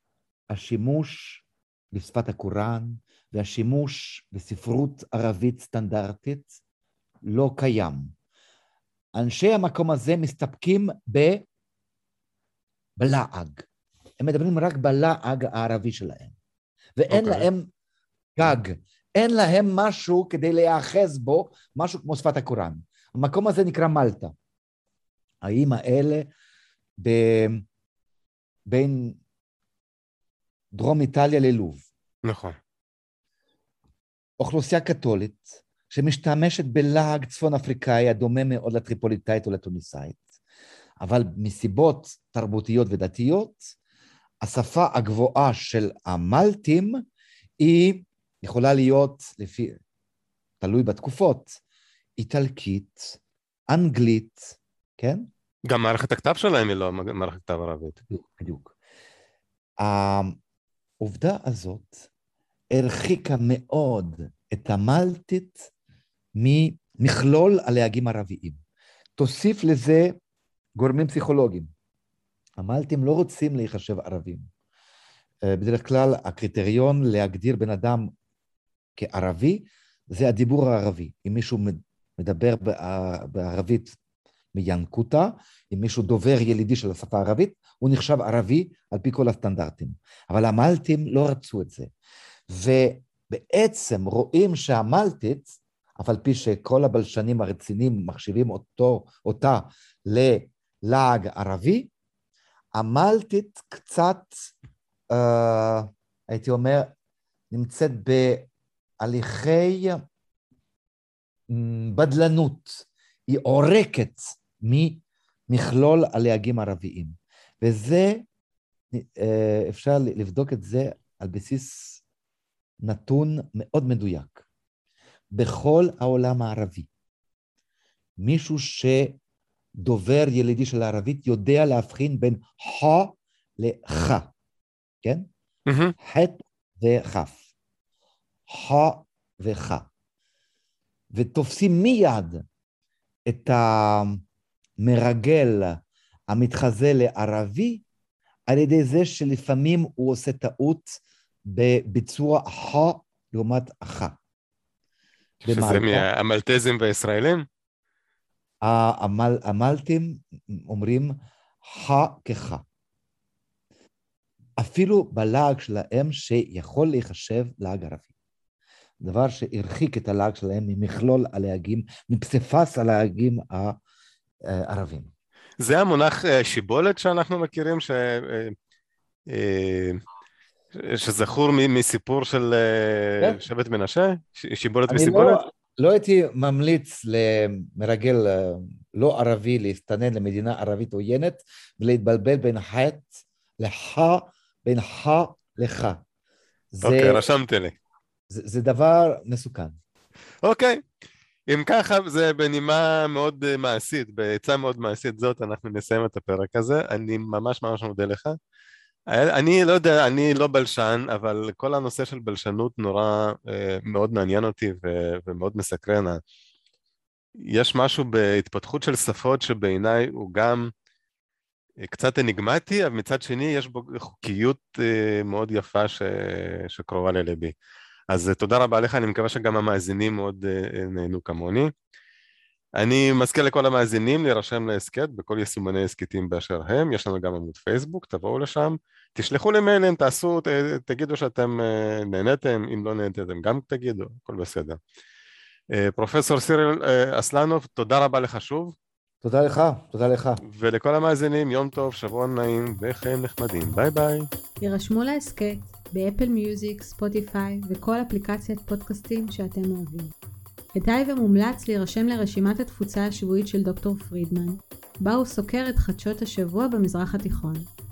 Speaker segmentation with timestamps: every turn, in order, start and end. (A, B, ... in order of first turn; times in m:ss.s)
0:00.5-0:06.5 A
0:07.3-0:08.1 A
0:09.1-0:11.4 A
0:13.0-0:13.7 A
0:14.2-0:16.3 A
0:17.0-0:17.7 A
0:17.1-0:17.5 B
0:18.4-0:24.3 A
0:25.4-0:26.3 A
0:27.0-0:27.6 A
0:28.7-0:29.2 A
0:30.7-0:31.8 A
0:32.2-0:32.6 B
0:34.4-0:40.2 A
0:41.0-0:43.7 A
0:44.4-0:47.0 A
0:47.6-0:49.8 A
0:50.6-0:51.6 A
0:52.2-0:55.3 A
0:55.7-0:58.0 B
0:58.1-0:58.7 A
0:59.8-1:00.4 A
1:01.0-1:02.1 A
1:02.7-1:05.7 A
1:06.4-1:08.6 A
1:09.2-1:10.2 A
1:10.8-1:11.7 A
1:12.6-1:14.5 A
1:15.4-1:18.1 A
1:19.0-1:24.0 A
1:24.5-1:31.9 A
1:32.5-1:41.9 A
1:42.7-1:44.5 A
1:45.1-1:46.9 A
1:47.5-1:48.5 A
1:49.0-1:50.0 A
1:51.5-1:58.2 A
1:58.9-2:02.0 A
2:02.8-2:04.4 A
2:05.3-2:06.9 A
2:08.2-2:09.2 A
2:09.8-2:14.3 A
2:15.0-2:15.3 A
2:15.7-2:15.9 B
2:16.0-2:17.4 A
2:18.5-2:19.9 A
2:21.1-2:22.4 A
2:23.3-2:24.2 A
2:24.8-2:25.8 A
2:26.3-2:27.8 A
2:28.5-2:34.2 A
2:35.4-2:37.4 B
2:35.4-2:36.1 A
2:38.6-2:42.6 A
2:44.6-2:48.1 A
2:49.0-2:53.8 A
2:54.5-2:55.1 A
2:55.6-2:58.5 B
2:59.3-3:00.0 B
3:00.7-3:05.4 B
3:04.9-3:16.0 A
3:16.7-3:17.2 A
3:16.8-3:17.7 B
3:18.3-3:19.8 A
3:20.4-3:20.8 B
3:21.5-3:28.4 B
3:29.1-3:36.2 B
3:37.4-3:40.7 B
3:41.8-3:47.5 B
3:48.1-3:51.7 B
3:52.8-4:04.8 B
4:05.7-4:08.7 B
4:09.2-4:10.4 A
4:10.4-4:14.3 B
4:14.6-4:20.1 C
4:20.7-4:27.7 C